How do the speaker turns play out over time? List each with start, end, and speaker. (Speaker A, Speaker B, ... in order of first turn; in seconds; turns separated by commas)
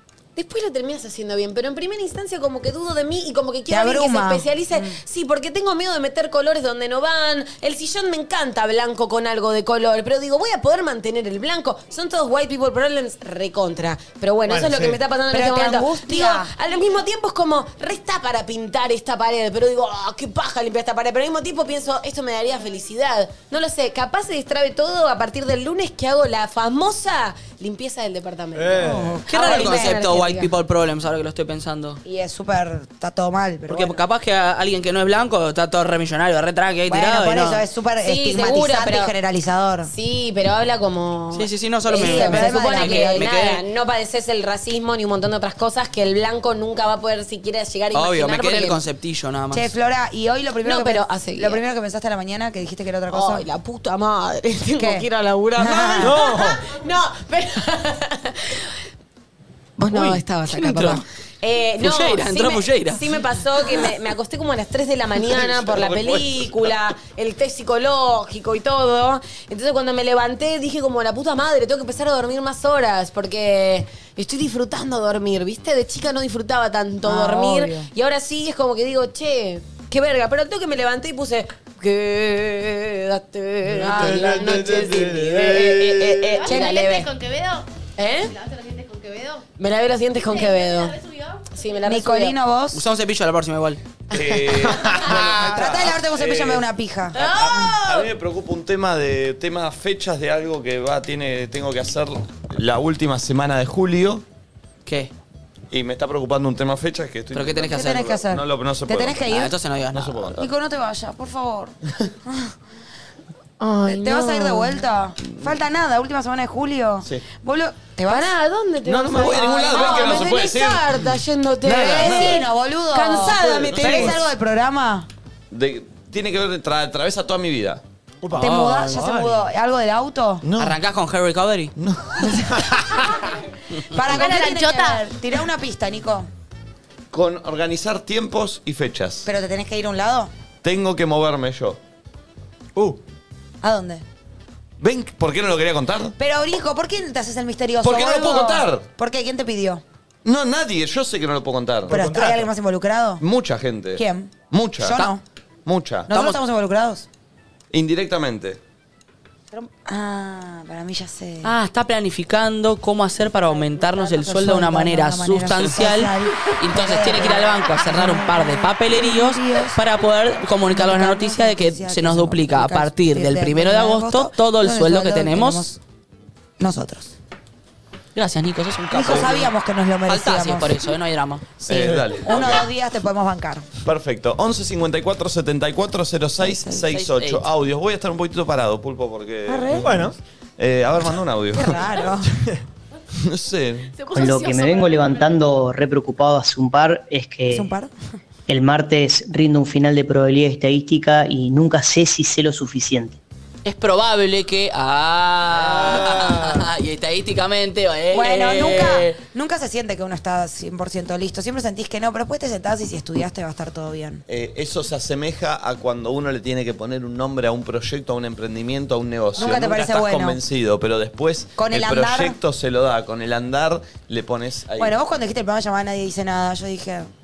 Speaker A: 0.4-30.5, Speaker B: 3.7-5.0, Speaker C: 14.5-15.0, Speaker B: 15.3-16.5, Speaker C: 28.6-29.2, Speaker B: 28.8-30.0, Speaker D: 29.3-32.0, Speaker B: 32.0-34.0, Speaker D: 33.7-37.6, Speaker B: 36.9-39.9, Speaker A: 38.0-39.1, Speaker A: 39.9-48.8, Speaker D: 41.3-43.6, Speaker B: 41.9-43.3, Speaker D: 47.9-49.7, Speaker B: 49.5-53.5, Speaker A: 50.6-51.6, Speaker A: 53.1-58.7, Speaker B: 54.8-56.2, Speaker C: 56.0-56.6, Speaker A: 59.8-87.0, Speaker D: 59.9-61.0, Speaker D: 61.8-63.2, Speaker C: 65.5-66.1, Speaker E: 65.8-66.3, Speaker B: 77.0-77.9, Speaker C: 83.7-86.4, Speaker B: 83.8-84.6, Speaker E: 84.6-85.1, Speaker F: 86.4-89.5, Speaker B: 86.5-87.0, Speaker A: 88.0-88.3, Speaker A: 89.6-91.0, Speaker F: 90.1-92.0, Speaker A: 91.5-92.4, Speaker B: 91.9-92.8, Speaker D: 92.7-93.8, Speaker E: 94.1-104.2, Speaker C: 94.8-95.4, Speaker B: 95.2-97.7, Speaker A: 97.1-98.1, Speaker D: 104.9-105.1, Speaker E: 105.7-109.3, Speaker D: 107.3-108.1, Speaker B: 107.7-109.5, Speaker D: 109.2-110.3, Speaker E: 109.9-110.5, Speaker B: 110.4-112.5, Speaker A: 113.6-114.8, Speaker B: 113.8-118.4, Speaker E: 115.3-115.6, Speaker A: 118.1-124.2, Speaker E: 118.8-121.1, Speaker B: 119.7-120.2, Speaker B: 121.6-125.1, Speaker E: 121.7-122.4, Speaker E: 123.1-124.2, Speaker E: 125.5-127.8, Speaker C: 128.2-129.4, Speaker B: 128.4-130.4, Speaker D: 128.4-129.0, Speaker E: 130.4-130.8, Speaker D: 130.6-131.7, Speaker E: 131.8-133.0, Speaker B: 133.9-136.3, Speaker F: 134.1-135.0, Speaker E: 137.1-139.3, Speaker B: 139.2-140.3, Speaker E: 140.6-141.8, Speaker B: 143.6-144.0, Speaker E: 144.8-146.1, Speaker B: 146.2-149.8, Speaker E: 147.8-148.9, Speaker E: 150.2-152.0, Speaker C: 151.9-152.5, Speaker B: 151.9-153.2, Speaker E: 153.2-155.1, Speaker B: 153.9-155.2, Speaker E: 155.7-156.2, Speaker B: 156.1-157.1, Speaker E: 157.7-158.6, Speaker B: 159.5-161.5, Speaker D: 161.4-175.7, Speaker B: 163.4-169.8, Speaker B: 170.7-175.8, Speaker B: 176.6-177.2, Speaker D: 178.1-179.5, Speaker B: 178.9-180.8, Speaker D: 180.1-181.6, Speaker E: 181.6-182.7, Speaker B: 181.7-183.7, Speaker E: 183.8-192.0, Speaker B: 186.4-186.9, Speaker D: 186.9-187.5, Speaker B: 189.5-190.1, Speaker C: 189.8-190.2, Speaker B: 191.5-192.4, Speaker E: 193.1-194.0, Speaker F: 194.0-195.5, Speaker G: 194.1-197.7, Speaker B: 197.5-197.9, Speaker G: 198.5-203.2, Speaker D: 203.6-209.2, Speaker C: 205.8-206.3, Speaker B: 208.1-214.2, Speaker E: 214.3-224.9, Speaker B: 219.4-220.4, Speaker B: 221.6-222.4, Speaker B: 224.8-227.1